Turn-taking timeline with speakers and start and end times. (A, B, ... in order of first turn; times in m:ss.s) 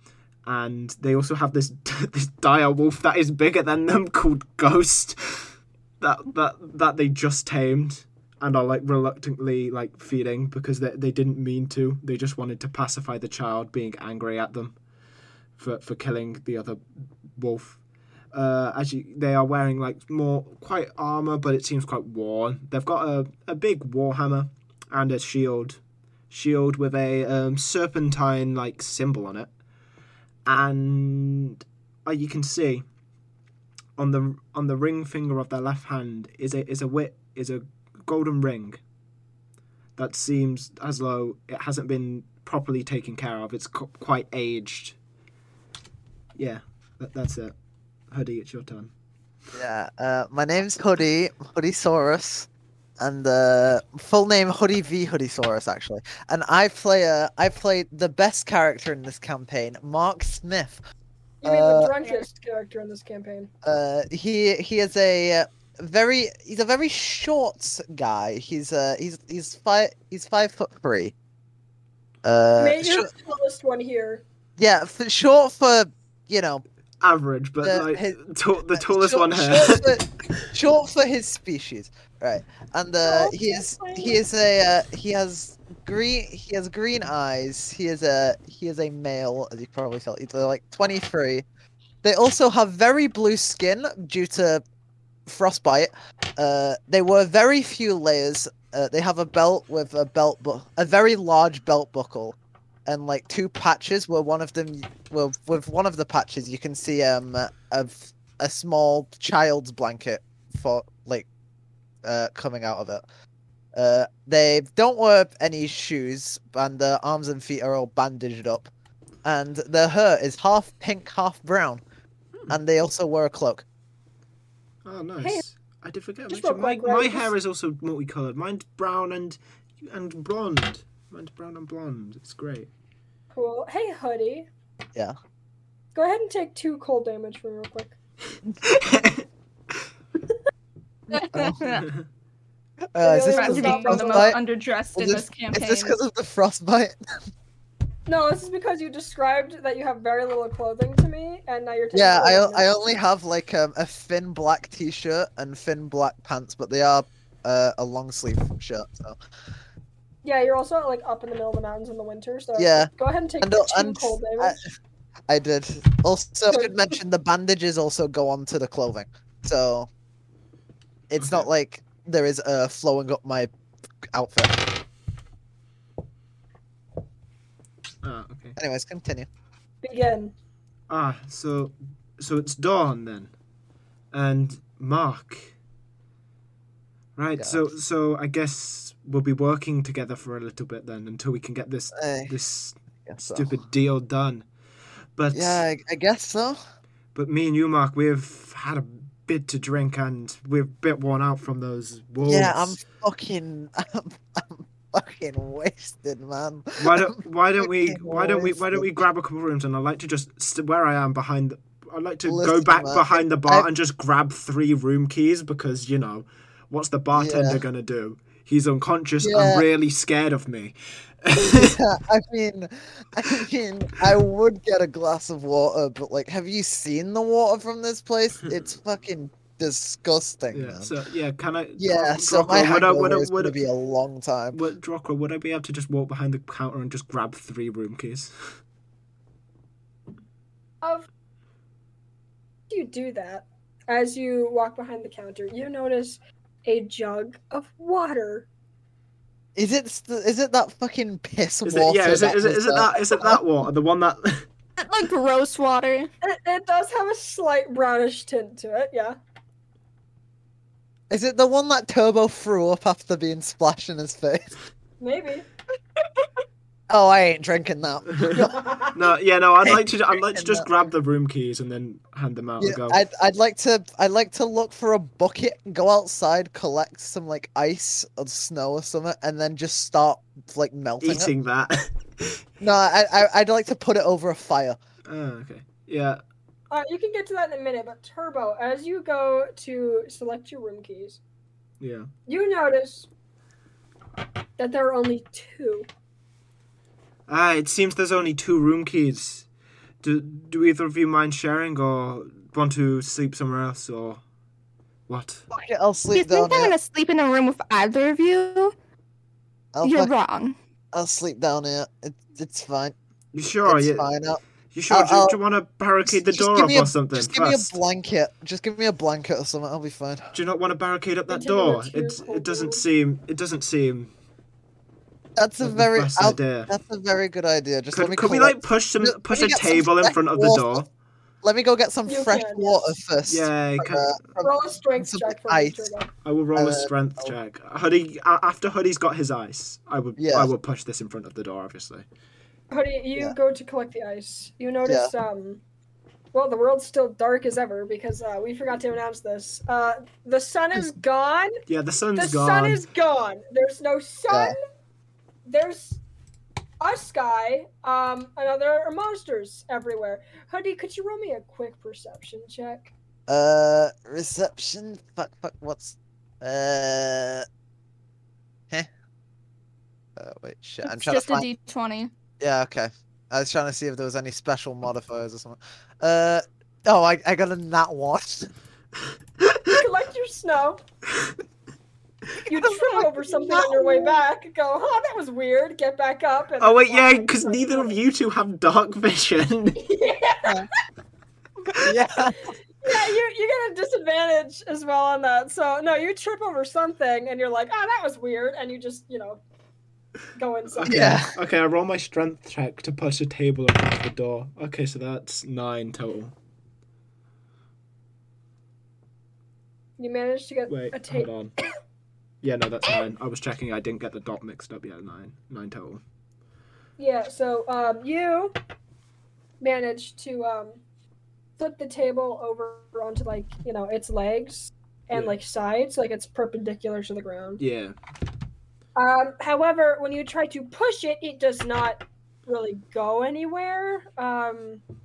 0:00.5-0:14.8 A
0:15.6-0:16.8 A
0:17.3-0:17.8 A
0:18.3-0:25.8 A
0:26.3-0:29.5 A
0:30.5-0:32.8 A
0:34.0-0:38.8 A
0:40.0-0:45.0 A
0:46.4-0:47.5 A
0:48.1-0:48.9 A
0:49.5-0:52.5 B
0:53.0-1:00.8 B
1:01.4-1:03.5 C
1:01.4-1:02.0 B
1:03.6-1:11.1 B
1:12.2-1:13.1 B
1:12.6-1:14.2 C
1:14.6-1:16.6 B
1:17.0-1:19.9 A
1:17.6-1:18.2 B
1:18.7-1:31.4 B
1:23.0-1:24.2 C
1:32.0-1:34.6 B
1:35.3-1:42.4 B
1:42.9-1:51.3 B
1:52.0-1:53.0 B
1:53.7-1:58.7 B
1:59.2-2:01.8 B
2:02.5-2:03.6 B
2:04.8-2:12.7 A
2:06.3-2:07.3 C
2:13.3-2:14.5 C
2:16.0-2:18.0 C
2:18.6-2:19.2 A
2:21.1-2:21.9 D
2:21.3-2:21.6 B
2:21.7-2:22.0 A
2:22.9-2:24.4 B
2:23.0-2:24.4 C
2:23.3-2:26.0 D
2:24.9-2:27.0 B
2:28.1-2:32.7 C
2:31.9-2:39.2 B
2:40.2-2:44.6 C
2:42.6-2:42.9 B
2:43.4-2:44.7 B
2:45.3-2:49.9 B
2:51.1-2:53.5 B
2:51.2-2:51.5 A
2:54.1-2:54.7 B
2:58.0-2:58.6 A
2:58.6-2:59.3 B
2:59.8-3:00.3 C
3:00.9-3:03.3 A
3:04.1-3:05.5 A
3:07.2-3:14.4 A
3:07.4-3:07.6 B
3:12.0-3:12.3 B
3:13.1-3:13.5 B
3:15.2-3:15.6 A
3:15.3-3:16.6 B
3:17.2-3:22.8 A
3:22.2-3:28.9 B
3:26.8-3:41.8 A
3:32.2-3:33.7 B
3:37.1-3:37.6 B
3:39.2-3:39.6 B
3:41.4-3:50.9 B
3:50.5-3:53.6 A
3:51.8-3:54.6 B
3:54.5-3:58.3 A
4:00.8-4:01.1 C
4:02.7-4:08.5 C
4:09.6-4:13.4 B
4:11.6-4:14.5 A
4:14.8-4:16.1 D
4:16.2-4:19.2 C
4:21.1-4:24.6 B
4:25.0-4:25.5 C
4:26.9-4:28.7 B
4:28.6-4:29.0 C
4:28.9-4:33.0 A
4:29.6-4:30.7 B
4:32.6-4:41.3 B
4:41.0-4:42.4 A
4:42.6-4:44.8 B
4:45.1-4:46.2 A
4:46.7-4:51.2 C
4:51.8-4:52.1 A
4:52.3-4:53.1 C
4:54.6-4:55.9 C
4:57.3-4:59.5 A
5:00.0-5:04.2 A
5:05.1-5:05.4 A
5:05.5-5:06.7 B
5:06.1-5:08.7 D
5:09.7-5:10.1 B
5:09.8-5:10.6 D
5:10.9-5:13.0 B
5:13.3-5:14.1 A
5:13.7-5:15.4 B
5:14.7-5:17.7 A
5:16.1-5:20.3 B
5:20.3-5:24.1 A
5:21.3-5:22.8 C
5:25.4-5:30.8 B
5:25.6-5:26.7 A
5:27.9-5:30.9 A
5:31.4-5:35.9 B
5:32.1-5:33.0 C
5:33.3-5:34.3 A
5:34.4-5:36.1 C
5:36.2-5:42.0 A
5:36.6-5:37.3 B
5:40.2-5:40.5 B
5:42.7-5:45.6 C
5:44.9-5:45.1 B
5:46.3-5:51.6 C
5:51.7-5:52.8 A
5:52.2-5:54.6 C
5:54.3-5:54.6 B
5:55.5-5:56.0 C
5:56.8-6:02.9 C
6:03.3-6:07.5 B
6:10.2-6:11.5 B
6:10.8-6:12.1 D
6:12.4-6:18.5 B
6:19.7-6:20.8 C
6:22.4-6:24.2 B
6:22.5-6:28.0 C
6:26.6-6:29.8 A
6:29.8-6:30.7 C
6:31.7-6:32.5 B
6:32.8-6:39.4 C
6:40.4-6:41.1 C
6:40.7-6:46.3 A
6:40.8-6:41.3 B
6:50.0-6:51.3 C
6:50.7-6:51.5 A
6:52.4-6:56.0 A
6:57.0-6:58.6 C
6:59.6-7:00.8 C
7:01.6-7:07.6 C
7:07.6-7:08.0 A
7:09.0-7:14.8 C